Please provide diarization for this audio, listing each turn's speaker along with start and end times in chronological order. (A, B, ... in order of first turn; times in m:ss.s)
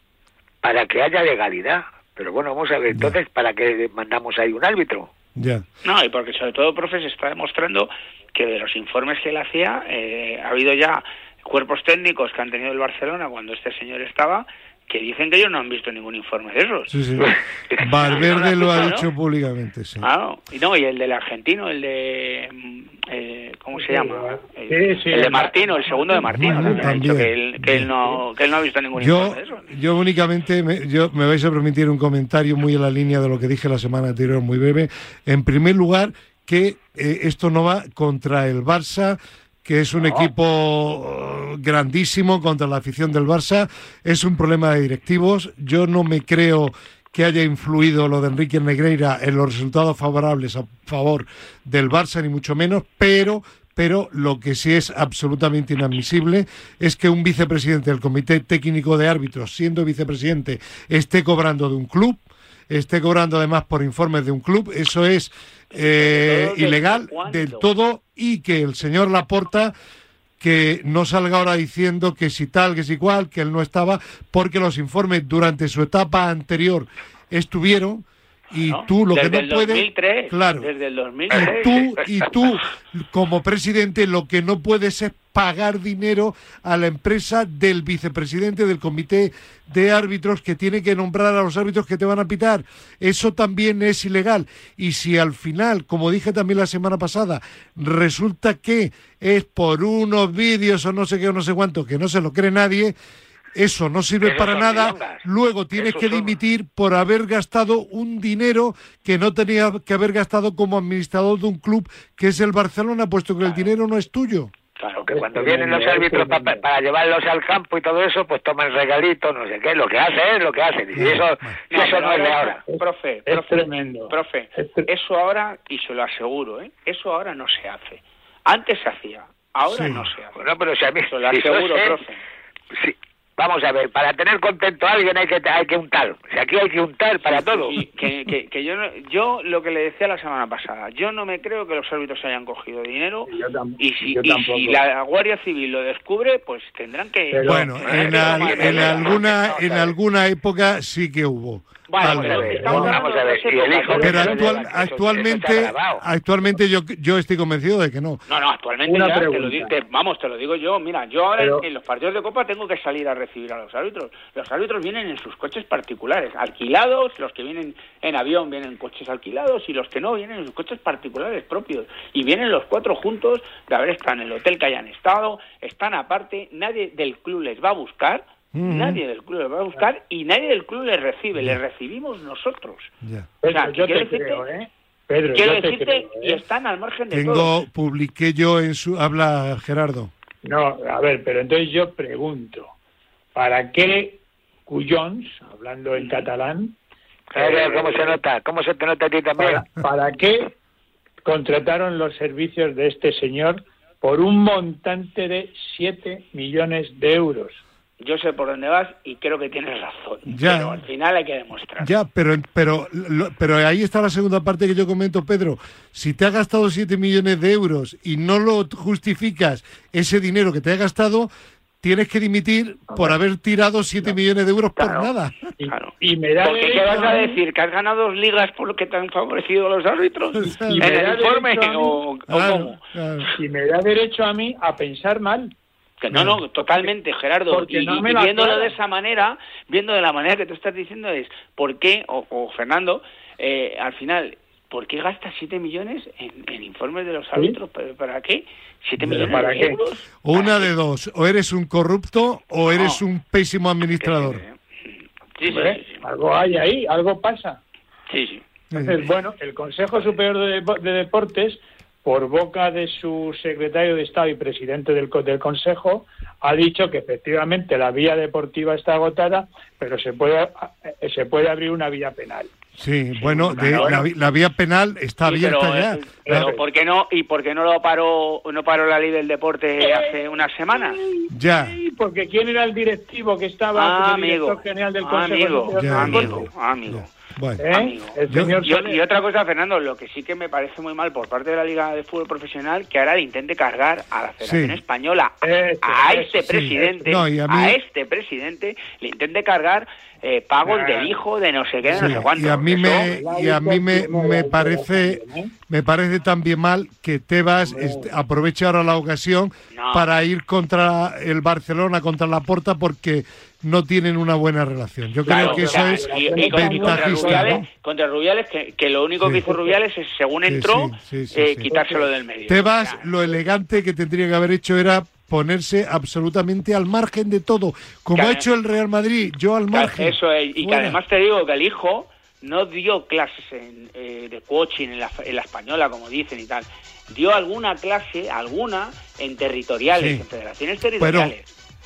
0:00.6-0:05.1 A
0:02.9-0:03.2 B
0:05.4-0:05.6 B
0:05.8-0:16.9 C
0:16.9-0:17.3 B
0:17.2-0:18.9 A
0:17.8-0:20.1 B
0:18.0-0:19.0 C
0:20.0-0:29.6 C
0:23.7-0:27.0 D
0:26.3-0:27.9 B
0:29.0-1:09.7 B
0:40.0-0:40.2 D
1:05.7-1:07.7 C
1:10.4-1:20.7 B
1:18.6-1:21.8 C
1:21.3-1:22.3 A
1:21.3-1:42.9 B
1:43.5-1:54.5 B
1:44.2-1:46.3 A
1:54.8-1:55.1 C
1:55.1-1:56.6 D
1:55.1-2:02.6 A
2:00.9-2:01.6 B
2:01.7-2:10.4 C
2:02.7-2:04.9 D
2:09.6-2:10.1 B
2:10.4-2:12.0 A
2:11.0-2:12.2 C
2:12.7-2:17.8 A
2:17.2-2:29.9 C
2:23.2-2:24.8 D
2:27.3-2:29.0 D
2:27.4-2:33.0 B
2:28.0-2:29.1 A
2:31.9-2:34.6 C
2:32.0-2:36.0 A
2:32.1-2:33.0 D
2:33.8-2:34.5 D
2:34.0-2:38.2 B
2:38.3-3:02.9 C
2:38.8-2:39.7 D
2:41.4-2:41.6 D
2:58.5-2:59.0 B
3:01.3-3:01.6 B
3:03.0-3:03.3 B
3:03.4-3:06.4 D
3:03.5-3:04.4 C
3:05.3-3:07.5 C
3:07.1-3:10.1 B
3:10.4-3:12.7 D
3:13.3-3:16.8 D
3:16.0-3:16.2 C
3:17.3-3:18.2 D
3:17.3-3:19.6 A
3:19.4-3:20.5 D
3:21.2-3:27.6 D
3:28.0-3:31.9 C
3:30.3-3:30.8 B
3:31.8-3:41.3 B
3:41.8-3:45.4 B
3:42.9-3:43.2 D
3:44.8-3:45.1 C
3:45.6-3:47.4 D
3:45.6-3:52.8 C
3:46.8-3:47.1 B
3:50.4-3:50.9 B
3:50.4-3:52.0 D
3:52.3-3:53.3 B
3:53.3-3:55.5 D
3:56.0-4:10.7 C
3:56.1-3:56.4 B
3:56.6-3:56.9 D
3:57.5-3:58.7 D
4:09.0-4:09.4 B
4:09.1-4:09.8 D
4:10.2-4:14.4 B
4:12.7-4:13.0 C
4:14.0-4:16.0 C
4:15.5-4:17.6 D
4:18.1-4:18.4 C
4:18.7-4:32.5 D
4:32.8-4:36.5 B
4:33.2-4:34.0 C
4:33.5-4:34.0 D
4:35.2-4:41.0 C
4:36.2-4:36.6 D
4:39.8-4:40.2 D
4:40.7-4:46.5 D
4:41.3-4:41.7 B
4:43.7-4:47.1 C
4:45.7-4:47.6 B
4:47.6-4:49.0 D
4:47.6-5:03.1 C
4:48.3-4:48.6 B
4:54.4-4:54.8 B
4:55.4-4:57.1 D
4:56.5-4:57.8 B
5:00.6-5:01.1 D
5:01.9-5:02.3 D
5:01.9-5:17.7 B
5:02.9-5:05.5 D
5:07.6-5:08.1 D
5:09.7-5:10.1 C
5:15.2-5:17.6 D
5:15.3-5:23.0 C
5:19.2-5:19.5 B
5:19.4-5:19.8 D
5:20.5-5:21.7 B
5:21.7-5:22.0 D
5:22.5-5:31.0 B
5:28.1-5:28.4 C
5:29.7-5:41.5 C
5:39.9-5:40.2 B
5:41.0-5:41.3 B